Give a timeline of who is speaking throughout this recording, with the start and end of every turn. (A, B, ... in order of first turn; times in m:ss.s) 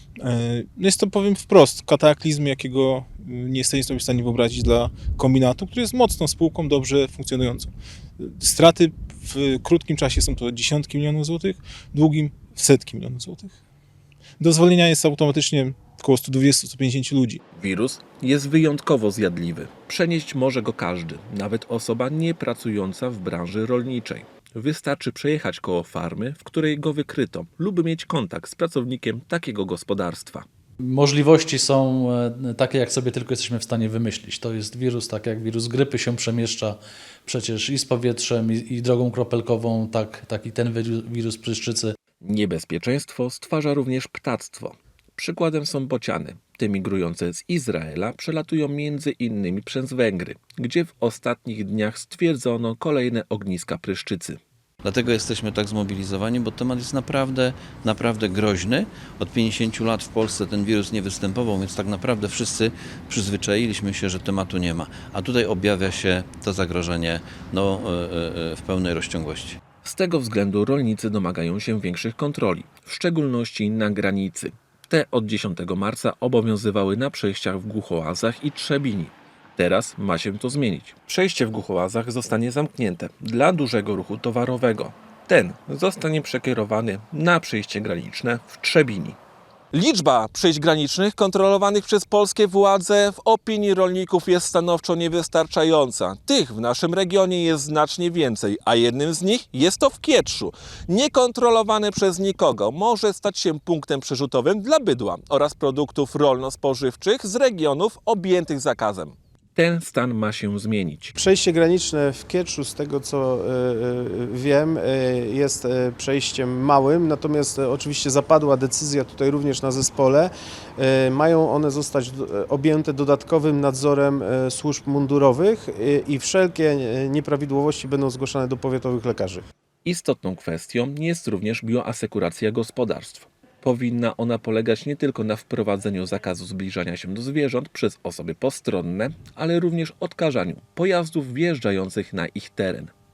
0:00.2-0:13.6 A
0:14.4-0:17.4 A
0:17.5-0:30.4 B
0:30.8-0:41.9 C
0:42.2-0:54.4 B
0:54.8-1:09.6 D
1:09.8-1:29.2 B
1:29.7-1:51.1 B
1:51.2-2:09.4 E
2:09.8-2:22.9 B